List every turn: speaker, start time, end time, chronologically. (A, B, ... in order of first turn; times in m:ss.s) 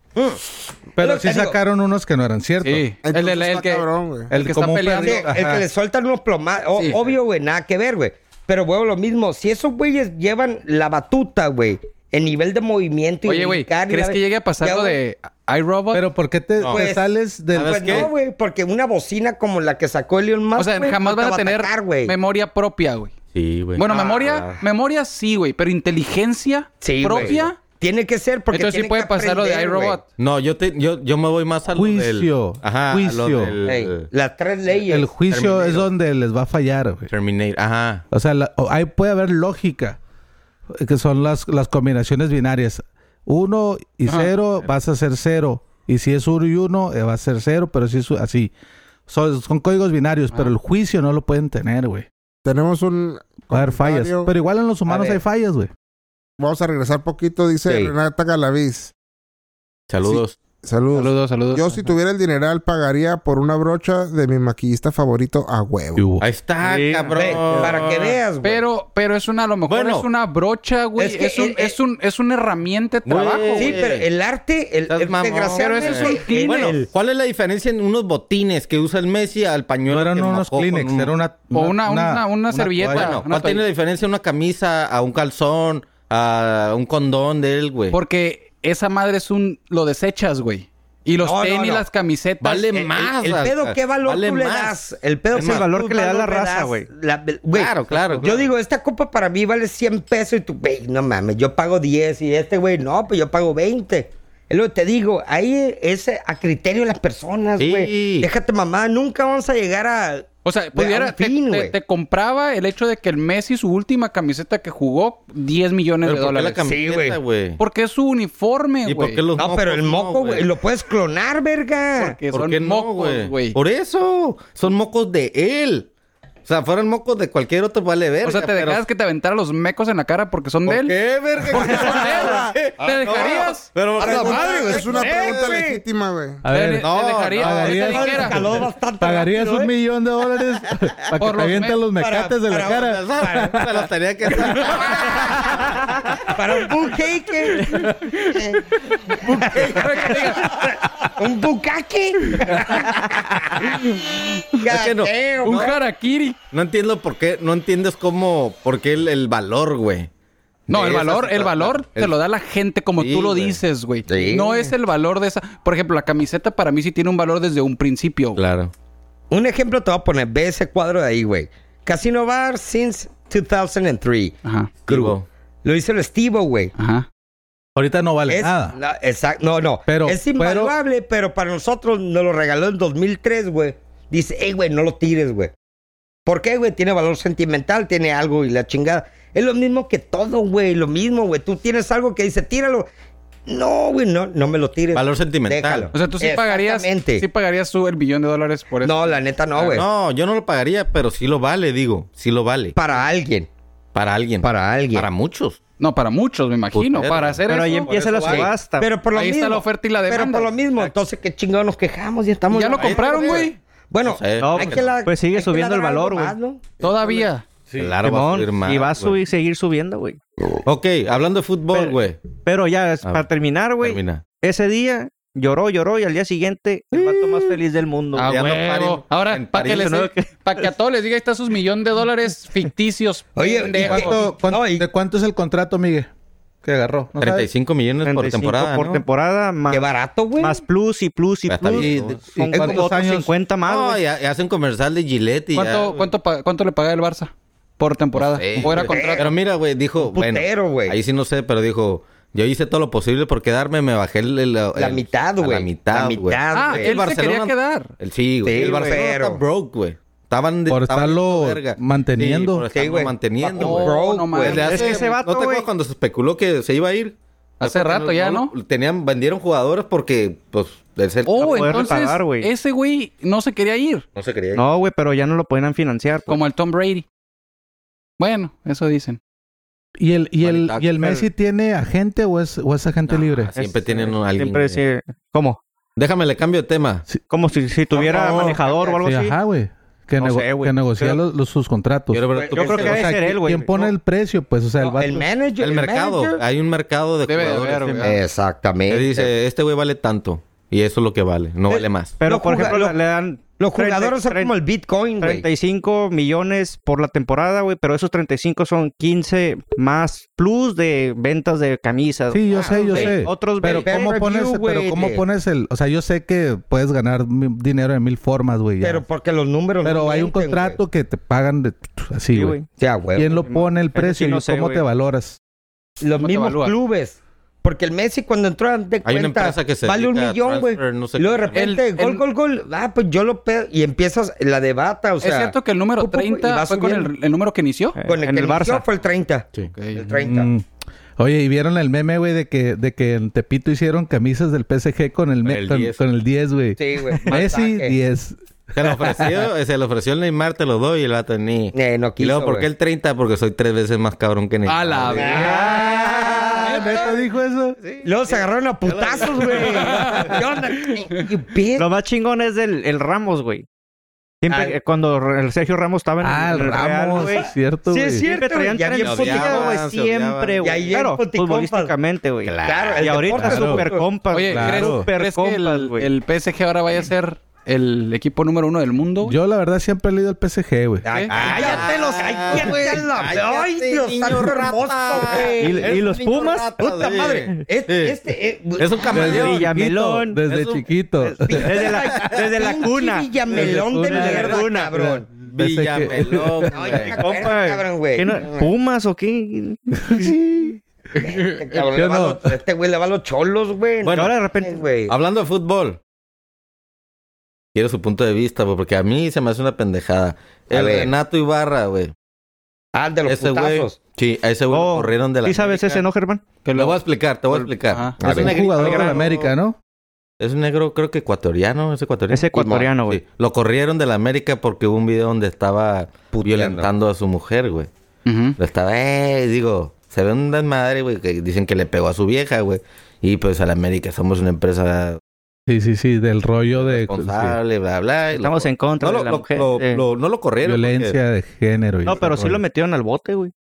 0:00.2-0:01.6 A
0:01.0-0:02.9 B
0:02.6-0:05.3 C
0:03.0-0:04.3 D
0:04.3-0:05.6 B
0:05.0-0:15.0 A
0:13.3-0:16.1 C
0:15.9-0:18.1 B
0:16.7-0:22.1 A
0:17.6-0:18.1 E
0:20.6-0:23.1 C
0:23.3-0:24.6 E
0:23.8-0:27.6 C
0:23.9-0:24.2 A
0:26.8-0:30.0 A
0:27.1-0:27.4 E
0:28.5-0:30.0 C
0:30.2-0:34.1 E
0:31.7-0:33.6 B
0:33.6-0:35.1 A
0:34.9-0:37.1 B
0:35.3-0:35.9 E
0:37.1-0:38.0 E
0:38.1-0:40.0 B
0:40.8-0:48.5 B
0:44.1-0:44.3 C
0:49.1-0:52.1 B
0:52.4-0:54.3 D
0:53.5-0:55.7 B
0:54.9-0:55.2 A
0:56.4-0:58.9 D
0:57.7-0:57.9 A
0:59.9-1:00.4 E
1:00.6-1:06.0 D
1:01.0-1:01.9 C
1:06.0-1:06.2 B
1:06.2-1:08.2 E
1:06.6-1:07.9 F
1:07.2-1:08.6 A
1:08.4-1:13.8 C
1:09.7-1:10.1 E
1:11.0-1:11.8 A
1:13.0-1:14.1 E
1:13.6-1:16.9 A
1:14.9-1:21.1 E
1:15.6-1:16.8 C
1:19.9-1:23.2 B
1:21.5-1:23.6 C
1:22.9-1:28.0 E
1:27.9-1:32.8 C
1:31.2-1:31.8 A
1:32.4-1:34.7 E
1:32.7-1:51.7 A
1:35.3-1:35.7 E
1:35.3-1:36.9 F
1:37.5-1:38.5 E
1:37.9-1:38.3 F
1:47.6-1:48.3 E
1:50.4-1:56.6 C
1:56.1-1:57.6 E
1:56.6-1:57.2 A
1:57.6-1:59.2 C
1:58.9-2:00.5 E
1:59.4-2:02.2 A
2:02.0-2:03.6 C
2:02.3-2:05.9 E
2:06.5-2:08.8 E
2:08.2-2:11.0 C
2:10.7-2:15.4 E
2:11.5-2:13.7 C
2:13.1-2:15.8 A
2:14.0-2:16.4 D
2:16.4-2:23.7 B
2:16.5-2:18.6 C
2:16.8-2:17.8 E
2:17.6-2:19.7 A
2:21.2-2:21.8 C
2:22.0-2:23.6 A
2:22.7-2:25.8 E
2:24.4-2:24.6 B
2:24.4-2:35.7 A
2:27.7-2:28.5 C
2:29.1-2:30.6 C
2:29.2-2:30.2 E
2:34.7-2:35.7 E
2:35.4-2:36.4 C
2:36.5-2:40.1 E
2:40.7-2:48.4 C
2:40.7-2:42.1 E
2:43.0-2:43.6 E
2:44.1-2:44.7 A
2:48.4-2:48.7 E
2:49.3-2:54.4 A
2:54.4-2:54.7 C
2:54.9-2:55.2 E
2:54.9-2:56.7 A
2:56.8-2:57.1 C
2:57.8-2:58.8 B
2:58.3-3:05.5 A
2:59.9-3:00.7 B
3:06.3-3:12.9 A
3:13.5-3:17.3 A
3:14.9-3:15.9 E
3:15.9-3:19.2 C
3:18.8-3:19.9 A
3:19.6-3:22.8 E
3:22.8-3:23.5 A
3:23.9-3:25.6 E
3:24.4-3:25.1 A
3:25.8-3:28.4 C
3:26.7-3:28.5 E
3:27.5-3:28.9 F
3:28.3-3:37.3 A
3:29.1-3:30.6 C
3:32.5-3:33.6 C
3:32.8-3:35.0 E
3:34.4-3:36.4 F
3:36.8-3:37.4 C
3:37.8-3:39.2 E
3:38.0-3:40.2 F
3:40.6-3:42.2 E
3:41.7-3:48.3 F
3:43.8-3:44.2 E
3:47.0-3:47.2 E
3:48.2-3:54.2 C
3:48.3-3:50.1 E
3:49.6-3:50.7 F
3:53.4-3:54.9 A
3:53.8-3:54.0 E
3:53.8-3:56.1 B
3:56.6-3:57.5 B
3:57.2-3:59.0 E
3:58.0-3:59.9 F
3:59.7-4:00.6 A
4:00.4-4:04.0 F
4:01.5-4:02.9 E
4:01.7-4:03.3 B
4:03.6-4:06.1 E
4:05.6-4:09.3 C
4:08.2-4:31.8 E
4:08.6-4:09.3 A
4:10.0-4:11.0 A
4:14.8-4:17.0 A
4:16.5-4:17.9 C
4:18.4-4:19.4 A
4:20.7-4:22.7 B
4:22.7-4:24.9 A
4:23.6-4:25.1 C
4:24.5-4:25.7 F
4:27.6-4:28.5 C
4:31.3-4:34.0 C
4:31.4-4:32.5 F
4:34.2-4:34.6 E
4:34.6-4:36.4 F
4:36.3-4:37.0 C
4:38.2-4:39.2 C
4:40.0-4:43.5 B
4:40.4-4:40.9 E
4:41.0-4:41.3 F
4:43.1-4:44.8 E
4:43.5-4:45.6 F
4:46.0-4:47.1 E
4:47.3-4:49.4 F
4:47.9-4:48.6 E
4:48.0-4:49.0 A
4:49.0-4:55.3 B
4:50.2-4:51.2 F
4:52.1-4:53.2 E
4:52.3-4:53.1 A
4:52.5-4:53.9 F
4:54.8-4:56.4 A
4:55.6-4:58.2 E
4:57.3-4:58.2 C
4:58.0-4:59.3 A
4:58.9-5:02.2 E
5:01.7-5:03.0 A
5:02.2-5:04.5 F
5:03.6-5:05.4 A
5:05.2-5:14.1 F
5:12.3-5:19.0 B
5:12.5-5:15.2 A
5:18.8-5:20.8 A
5:19.8-5:22.6 B
5:22.3-5:22.7 F
5:22.8-5:23.3 A
5:23.2-5:25.4 B
5:23.3-5:24.8 F
5:26.0-5:37.1 A
5:26.2-5:26.8 C
5:29.0-5:31.6 E
5:31.5-5:32.2 C
5:35.2-5:38.0 C
5:38.0-5:38.8 F
5:38.1-5:40.5 A
5:39.7-5:40.2 C
5:40.2-5:40.6 B
5:41.2-5:49.4 B
5:45.4-5:46.0 E
5:46.8-5:48.0 A
5:48.7-5:56.5 E
5:51.7-5:52.7 A
5:54.7-5:55.6 C
5:55.1-5:57.2 A
5:55.2-5:57.8 B
5:56.6-5:57.1 C
5:57.9-6:00.3 E
5:58.0-6:01.9 A
5:59.6-6:01.2 C
6:01.8-6:03.7 F
6:04.4-6:16.1 F
6:06.2-6:08.2 B
6:07.9-6:09.8 A
6:09.0-6:11.0 E
6:10.6-6:11.9 A
6:12.4-6:13.6 E
6:12.6-6:14.1 A
6:13.4-6:13.8 B
6:14.3-6:19.4 C
6:14.5-6:15.0 B
6:19.2-6:21.1 B
6:21.0-6:26.0 A
6:21.0-6:21.4 C
6:21.3-6:28.2 E
6:21.4-6:23.1 F
6:25.6-6:27.7 F
6:27.0-6:29.6 A
6:28.8-6:29.8 E
6:29.1-6:32.2 B
6:29.2-6:30.4 F
6:30.5-6:30.9 E
6:31.2-6:35.0 F
6:31.5-6:35.3 A
6:33.5-6:36.8 B
6:35.5-6:37.2 E
6:36.7-6:38.7 A
6:36.8-6:40.4 F
6:40.0-6:40.7 B
6:41.2-6:45.1 A
6:41.8-6:42.5 B
6:44.0-6:44.3 E
6:44.1-6:44.8 F
6:45.1-6:46.0 E
6:47.8-6:52.1 E
6:50.7-6:51.1 A
6:53.0-6:54.0 A
6:53.3-6:56.0 E
6:54.7-6:56.4 F
6:56.6-6:57.0 C
6:56.7-6:59.5 E
6:57.8-6:58.2 C
6:58.2-6:58.9 A
6:58.2-6:59.8 B
6:58.8-6:59.2 F
7:00.4-7:07.9 E
7:02.3-7:03.2 F
7:06.3-7:06.9 A
7:08.3-7:08.6 C
7:08.6-7:15.2 E
7:15.7-7:17.6 B
7:16.8-7:21.2 E
7:18.3-7:20.0 F
7:20.6-7:22.6 B
7:22.0-7:23.5 F